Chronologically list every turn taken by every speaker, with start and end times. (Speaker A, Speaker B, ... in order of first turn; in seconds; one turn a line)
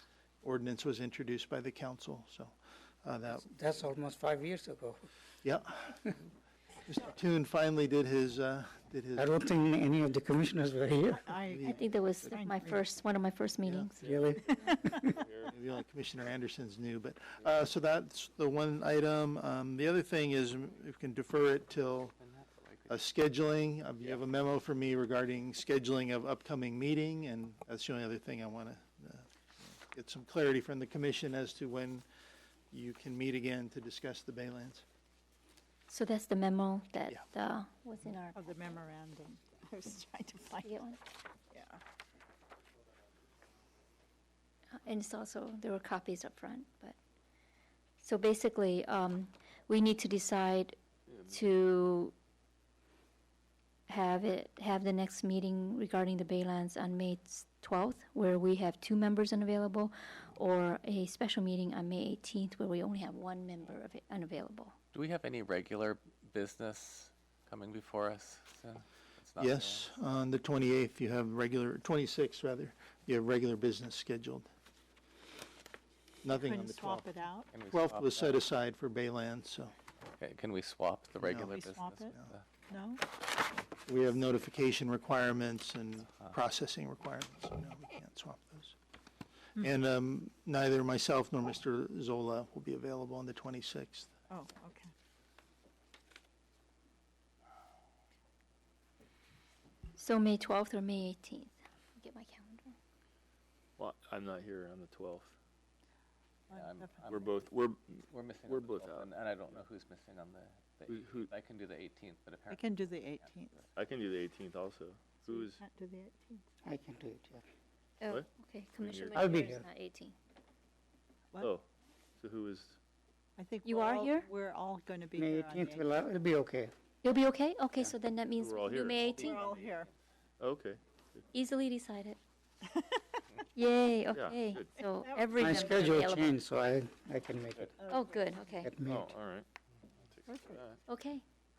Speaker A: 0.4-3.5
Speaker B: 3.4-5.1
Speaker A: 5.4-6.0
Speaker A: 6.9-9.3
Speaker B: 9.2-11.3
Speaker C: 11.2-12.8
Speaker A: 11.4-11.8
Speaker D: 11.7-14.1
Speaker A: 13.6-13.9
Speaker B: 14.0-15.2
Speaker E: 14.1-14.3
Speaker C: 14.4-15.1
Speaker A: 15.4-22.1
Speaker F: 22.2-22.9
Speaker A: 22.9-32.0
Speaker A: 32.7-34.8
Speaker D: 35.9-38.4
Speaker C: 38.3-40.7
Speaker D: 40.6-41.0
Speaker C: 41.5-41.8
Speaker D: 44.8-47.0
Speaker D: 48.0-50.8
Speaker D: 51.3-52.1
Speaker D: 53.9-64.7
Speaker F: 64.9-69.9
Speaker A: 69.4-74.5
Speaker A: 76.2-77.1
Speaker C: 76.3-77.5
Speaker F: 77.5-78.4
Speaker A: 77.7-79.7
Speaker F: 80.2-82.4
Speaker A: 81.2-81.6
Speaker C: 81.5-82.2
Speaker C: 82.7-83.0
Speaker A: 83.8-88.7
Speaker A: 89.6-94.1
Speaker C: 94.3-94.9
Speaker D: 100.0-102.8
Speaker E: 103.8-105.3
Speaker C: 106.5-107.1
Speaker F: 106.5-107.4
Speaker E: 107.1-109.1
Speaker F: 108.1-113.6
Speaker E: 110.9-111.3
Speaker C: 112.5-113.6
Speaker E: 113.7-115.6
Speaker C: 115.3-116.5
Speaker B: 116.6-117.4
Speaker D: 118.0-120.1
Speaker E: 118.8-119.3
Speaker B: 119.1-119.6
Speaker E: 121.4-121.7
Speaker E: 122.2-122.8
Speaker C: 123.4-125.8
Speaker D: 123.6-124.3
Speaker B: 125.1-126.7
Speaker D: 127.0-129.3
Speaker E: 127.8-129.4
Speaker C: 129.2-129.9
Speaker F: 129.3-129.9
Speaker E: 130.4-131.2
Speaker D: 131.3-132.2
Speaker C: 132.7-133.0
Speaker D: 133.5-136.3
Speaker E: 134.1-134.8
Speaker C: 134.8-135.8
Speaker B: 135.4-137.8
Speaker C: 137.8-138.6
Speaker D: 137.9-138.7
Speaker B: 138.6-139.1
Speaker E: 138.8-139.5
Speaker E: 140.1-140.8
Speaker C: 140.3-140.6
Speaker D: 140.9-141.2